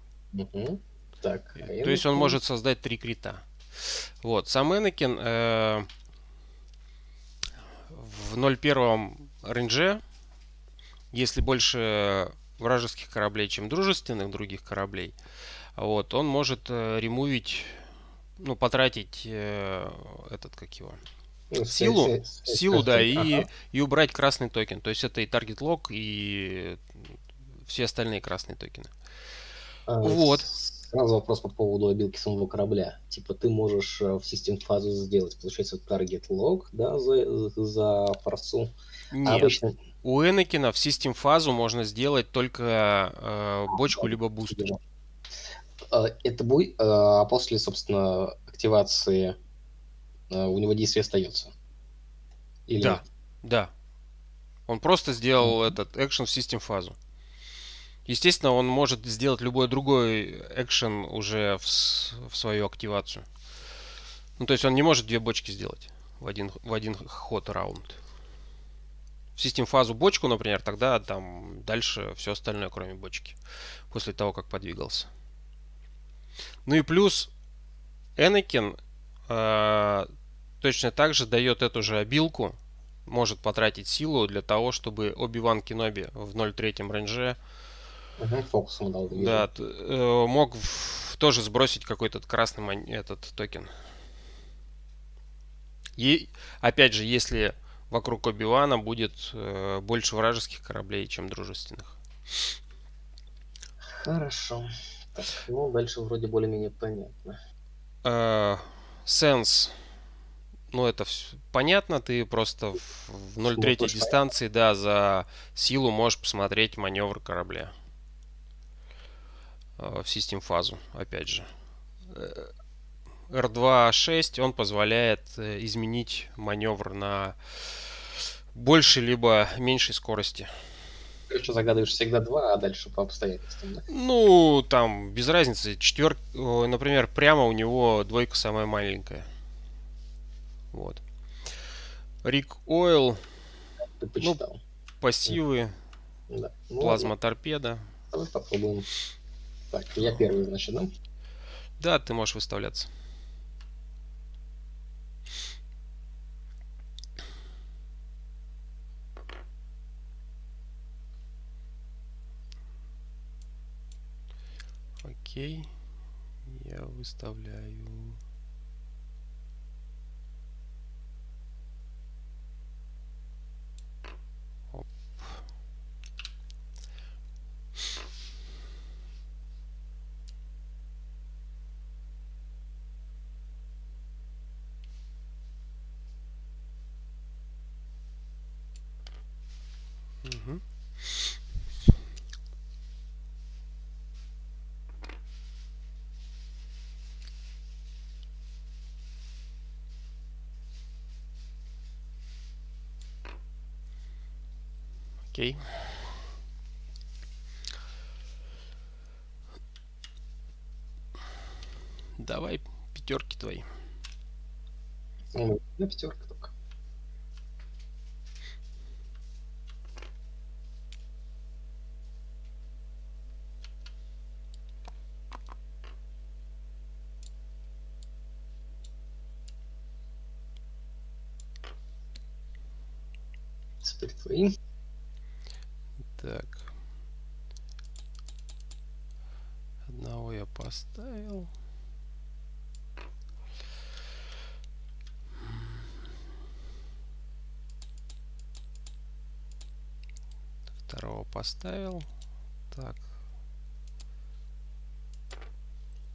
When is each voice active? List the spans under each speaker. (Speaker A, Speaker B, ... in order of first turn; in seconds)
Speaker A: 0.3-2.4, 21.5-23.5, 29.9-38.7, 39.2-39.8, 43.7-44.8, 45.8-49.4, 50.3-51.5, 52.7-53.0, 55.4-55.7, 88.2-89.5, 103.8-107.4, 113.5-114.1, 131.3-133.8, 144.0-144.6, 146.3-147.1, 148.1-148.9, 149.7-150.9, 215.3-216.5, 233.8-234.6
Speaker B: 1.6-5.9, 7.9-10.0, 11.1-15.2, 15.8-21.0, 21.7-27.1, 27.6-28.9, 30.0-30.5, 39.1-44.6, 52.8-53.7, 54.7-57.0, 58.1-63.3, 64.4-68.0, 69.4-73.4, 73.9-75.1, 76.7-77.3, 78.2-87.4, 89.1-93.7, 96.0-102.0, 108.0-109.8, 110.7-117.7, 119.8-121.5, 122.1-122.5, 123.3-130.5, 133.9-139.3, 140.7-141.0, 142.2-143.3, 145.0-145.8, 146.8-147.9, 151.8-152.9, 165.0-165.7, 166.4-168.2, 174.7-175.4, 190.2-191.3, 205.3-206.1, 212.2-213.7, 236.2-236.7, 239.9-241.5, 250.9-252.1, 252.7-253.0